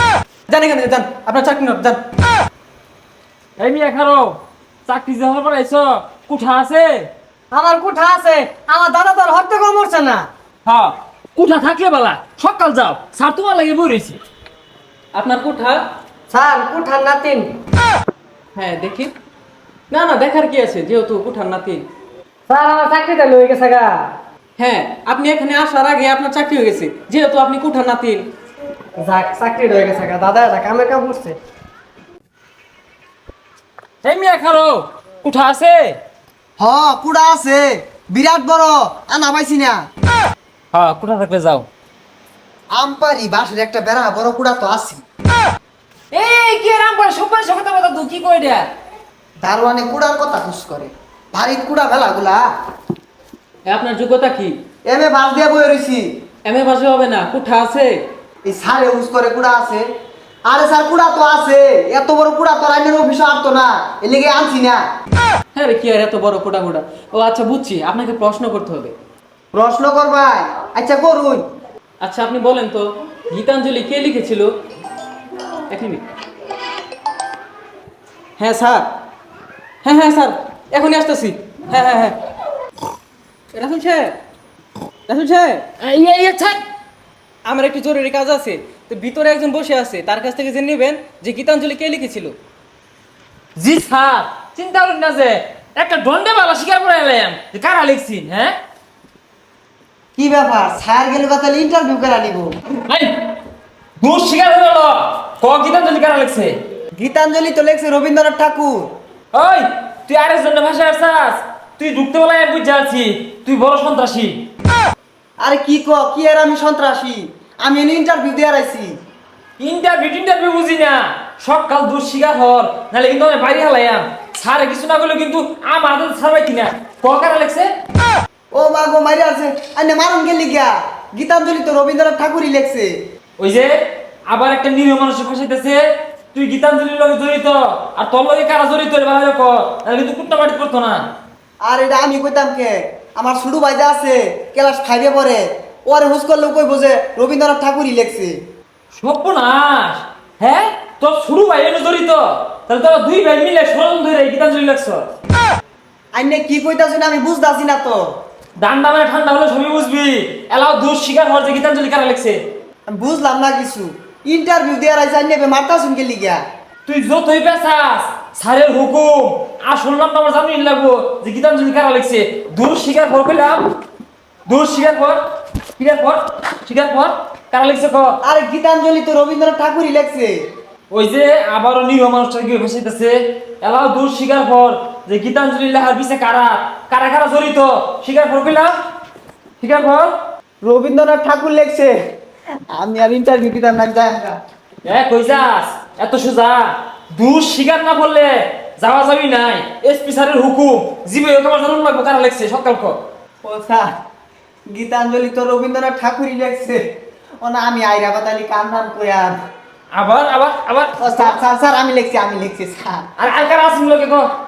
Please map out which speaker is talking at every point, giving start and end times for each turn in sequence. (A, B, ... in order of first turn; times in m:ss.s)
0:00.5-0:02.0 A
0:03.6-0:04.4 B
0:04.9-0:07.1 B
0:07.5-0:10.3 C
0:10.7-0:14.2 B
0:15.2-0:15.8 A
0:16.3-0:17.5 C
0:18.6-0:19.1 A
0:19.9-0:21.8 A
0:22.5-0:24.1 C
0:24.6-0:28.2 A
0:29.0-0:31.4 C
0:34.0-0:36.0 B
0:36.6-0:39.8 D
0:40.7-0:41.7 B
0:42.7-0:45.0 D
0:46.1-0:48.7 B
0:49.4-0:52.4 D
0:53.7-0:54.6 A
0:54.9-0:56.0 D
0:56.5-0:58.0 A
0:58.5-0:59.9 D
1:00.5-1:04.8 D
1:05.5-1:08.9 A
1:09.5-1:11.4 D
1:12.0-1:14.5 A
1:15.7-1:16.0 A
1:18.4-1:18.9 A
1:19.8-1:22.2 A
1:23.5-1:24.1 A
1:25.1-1:25.6 A
1:25.8-1:26.6 B
1:27.5-1:32.4 A
1:33.6-1:38.5 B
1:40.2-1:42.6 D
1:44.0-1:46.5 B
1:47.0-1:48.8 D
1:49.3-1:54.5 B
1:55.4-1:58.9 D
1:59.6-2:07.7 B
2:08.5-2:12.9 D
2:13.4-2:13.7 B
2:14.3-2:15.8 B
2:16.3-2:21.0 B
2:21.6-2:28.3 D
2:28.9-2:35.1 B
2:36.2-2:38.0 D
2:38.6-2:42.4 B
2:42.9-2:46.4 D
2:46.9-2:53.7 B
2:54.5-2:55.2 B
2:55.8-2:58.1 B
2:58.2-3:00.4 D
3:00.9-3:08.7 B
3:09.6-3:10.1 B
3:10.6-3:12.0 D
3:12.7-3:14.4 D
3:14.9-3:23.0 B
3:23.4-3:23.9 D
3:24.7-3:26.8 D
3:27.4-3:29.4 D
3:29.9-3:31.4 B
3:31.0-3:33.0 D
3:33.2-3:34.3 B